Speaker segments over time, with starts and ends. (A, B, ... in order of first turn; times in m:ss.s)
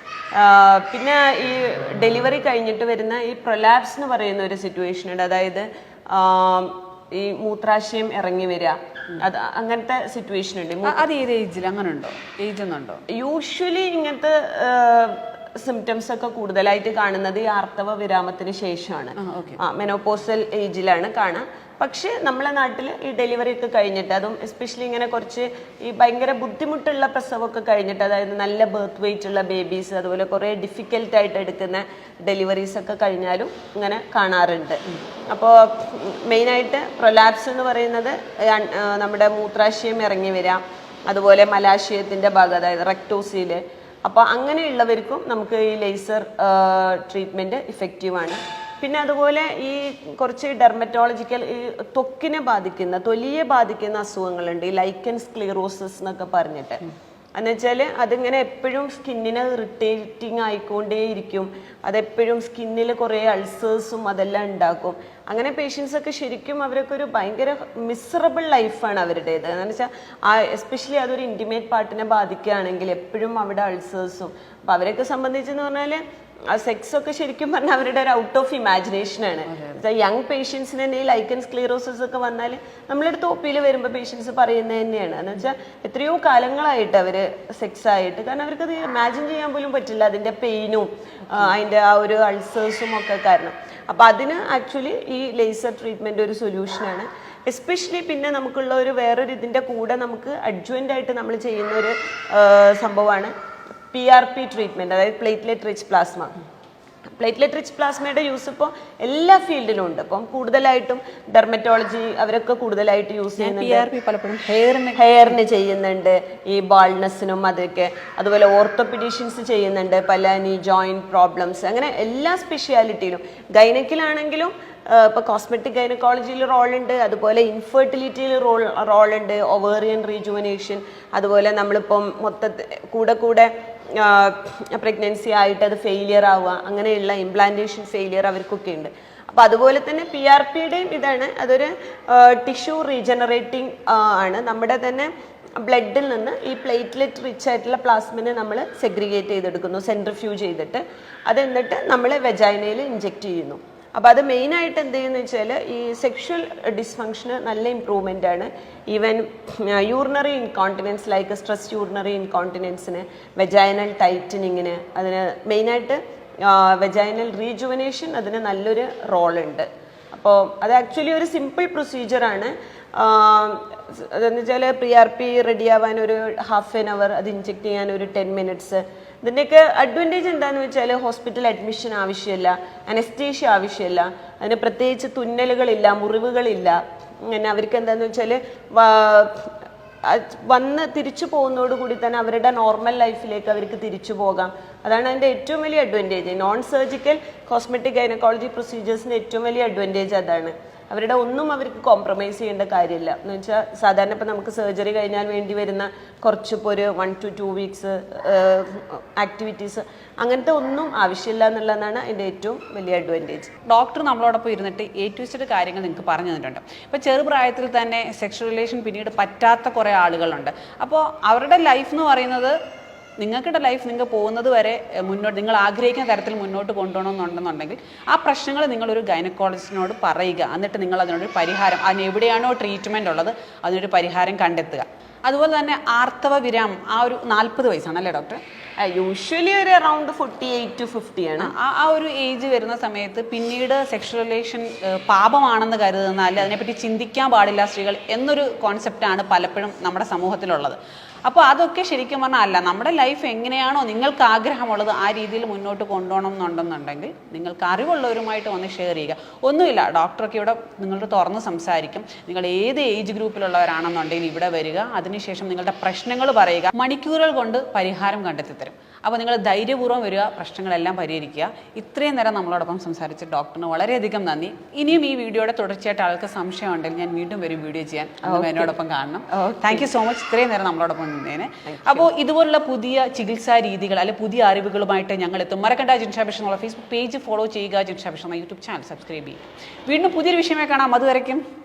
0:00.3-0:11.0 A
0:10.8-0:13.0 B
0:13.1-0:56.8 A
0:19.2-0:19.6 B
0:57.4-1:43.3 A
1:19.5-1:19.8 B
1:43.9-1:46.3 A
1:47.2-1:53.9 A
1:53.4-1:55.1 B
1:55.0-2:25.1 A
2:25.6-3:33.5 A
3:33.7-3:42.5 B
3:43.2-3:58.4 B
3:58.8-4:01.5 A
4:01.4-4:51.4 B
4:38.2-4:38.8 A
4:39.3-4:39.9 A
4:41.6-4:42.1 A